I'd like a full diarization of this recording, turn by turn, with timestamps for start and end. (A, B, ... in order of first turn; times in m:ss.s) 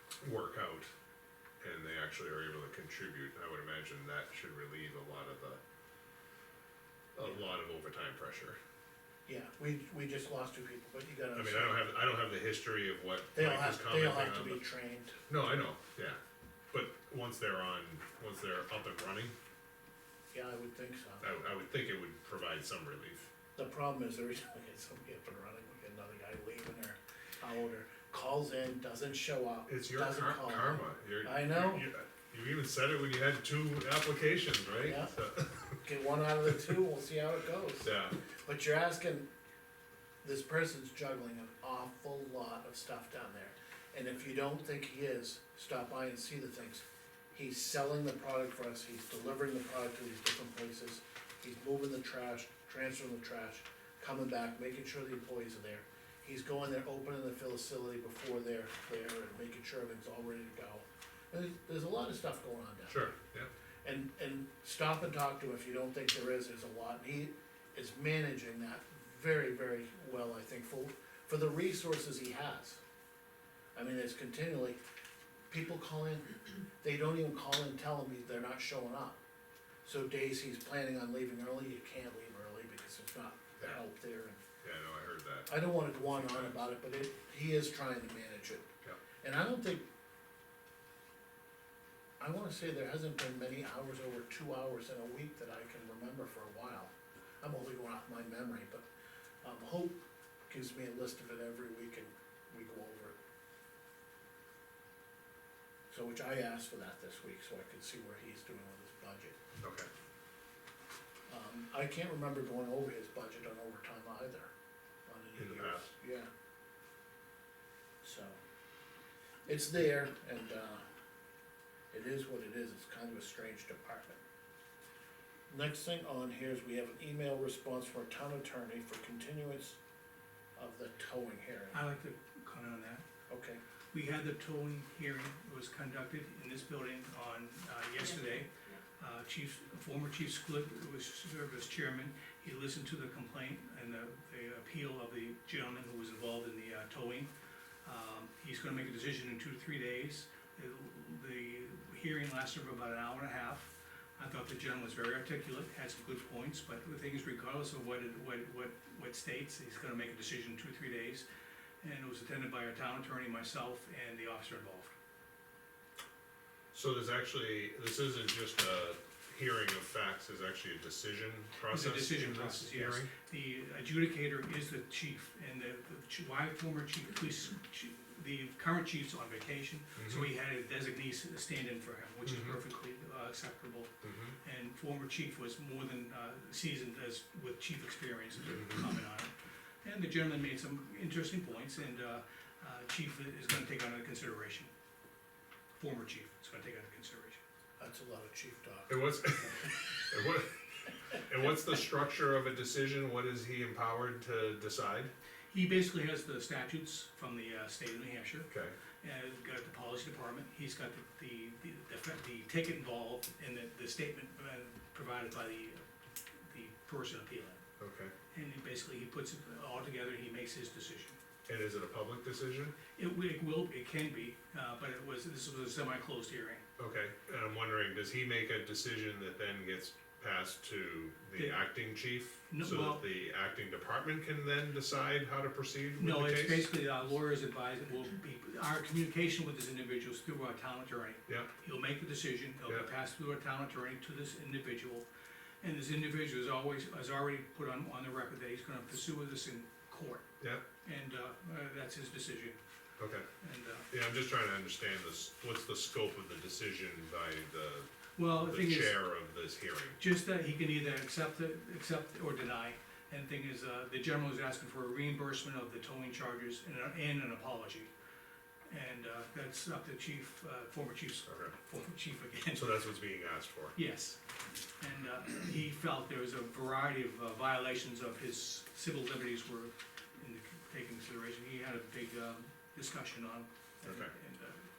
0:00.2-0:00.9 A
0:01.6-0:05.6 A
0:07.1-0:08.6 A
0:09.2-0:11.8 B
0:11.3-0:14.6 A
0:13.3-0:15.2 B
0:15.3-0:16.2 A
0:16.7-0:19.3 A
0:20.3-0:21.2 B
0:21.2-0:23.3 A
0:23.6-0:31.8 B
0:29.7-0:35.8 A
0:34.8-0:35.1 B
0:35.8-0:37.9 B
0:37.8-0:38.2 A
0:38.4-0:39.2 B
0:40.2-1:03.0 B
1:02.9-1:03.5 A
1:03.8-1:12.8 B
1:13.7-1:14.8 B
1:15.5-1:19.2 B
1:19.8-1:24.4 B
1:24.6-1:25.5 A
1:25.5-1:28.7 B
1:26.1-1:26.6 A
1:29.2-1:29.8 B
1:32.2-1:38.8 B
1:39.4-1:43.2 B
1:45.9-1:49.4 B
1:49.6-1:49.9 A
1:51.3-1:54.5 B
1:55.0-1:56.3 B
1:55.4-1:55.9 A
1:58.0-1:58.4 B
1:59.4-2:00.8 B
2:01.9-2:04.2 B
2:05.5-2:09.8 B
2:10.6-2:11.8 B
2:11.7-2:13.0 C
2:13.3-2:13.6 B
2:13.9-2:27.3 C
2:27.8-2:41.2 C
2:41.8-2:44.9 C
2:46.7-2:53.1 A
2:51.6-3:09.3 C
3:00.0-3:00.3 A
3:02.2-3:02.6 A
3:04.0-3:04.4 A
3:09.8-3:14.7 C
3:15.8-3:17.4 C
3:17.8-3:19.8 B
3:18.9-3:25.1 A
3:25.5-3:28.5 C
3:28.5-3:28.8 A
3:29.0-3:35.8 C
3:36.4-3:37.6 C
3:37.8-3:38.1 A
3:38.3-3:41.2 C
3:41.5-3:42.7 A
3:43.0-3:46.6 C
3:46.8-3:56.7 A
3:52.5-3:53.0 C
3:56.0-4:05.0 C
4:05.6-4:10.2 C
4:10.8-4:12.6 C
4:13.0-4:13.3 A
4:13.4-4:13.9 C
4:13.9-4:20.0 A
4:18.2-4:19.0 C
4:20.0-4:27.9 C
4:28.7-4:32.8 C
4:31.3-4:31.5 A
4:32.5-4:33.8 A
4:33.7-4:34.2 C
4:34.8-4:44.7 C
4:43.8-4:44.1 A